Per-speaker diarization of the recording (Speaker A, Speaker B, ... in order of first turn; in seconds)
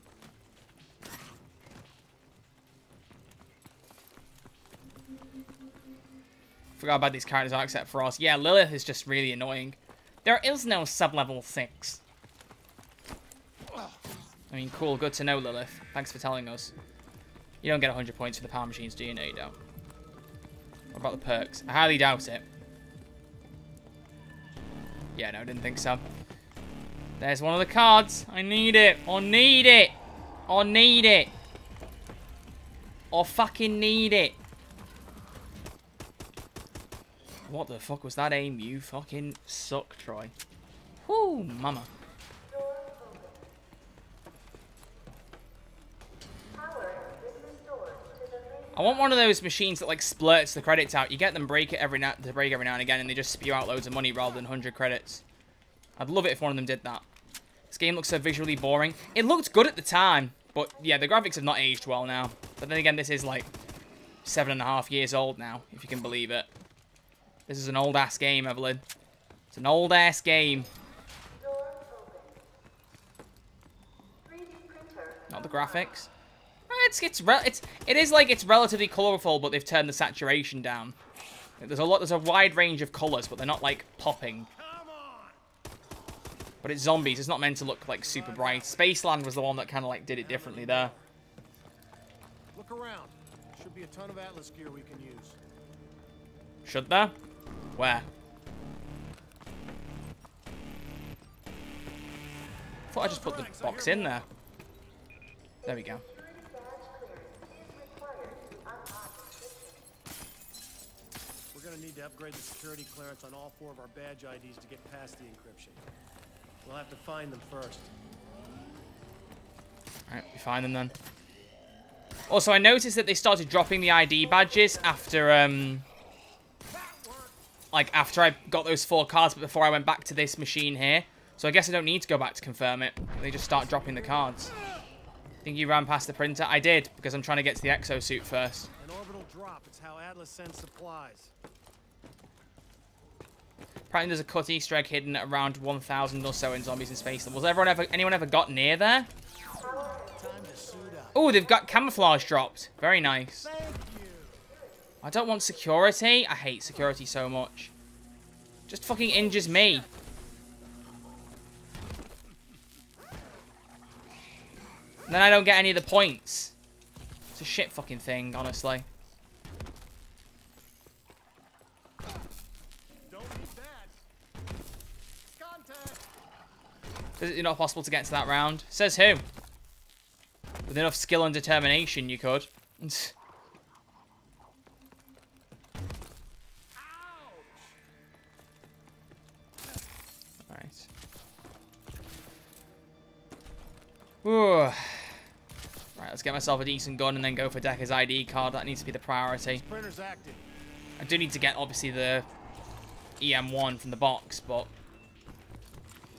Speaker A: 6.8-12.0, 14.5-16.7, 17.6-19.6, 20.9-22.4, 25.1-26.0, 27.2-30.0, 30.5-31.3, 33.1-34.4, 37.5-40.3, 41.0-41.9, 48.7-55.2, 56.0-57.0, 57.7-63.5, 64.2-66.5, 67.5-68.8, 69.5-70.7, 75.3-76.1, 76.7-81.0, 81.6-84.5, 86.6-90.9, 96.6-97.2, 97.7-98.0, 102.9-104.2, 105.6-106.0, 120.1-120.9, 122.3-125.8, 127.7-134.5, 135.4-138.7, 143.9-149.1, 151.1-153.5, 155.0-157.7, 158.7-159.9, 165.1-166.5, 167.3-168.9, 177.2-179.2, 180.7-183.1, 190.5-190.9, 194.2-195.2, 195.9-199.6, 201.0-202.3, 203.2-204.7
Speaker B: 42.5-43.4, 46.5-48.8, 71.3-72.4, 74.2-75.5, 105.7-109.8, 149.7-150.0
Speaker C: 84.5-85.4, 88.0-89.0, 90.1-91.1, 92.5-95.4, 102.9-104.2, 111.5-115.8, 116.6-117.9, 126.7-127.3, 138.8-141.3, 150.1-151.3, 153.4-154.4, 173.1-173.9, 175.3-176.1, 186.8-187.6, 199.5-200.4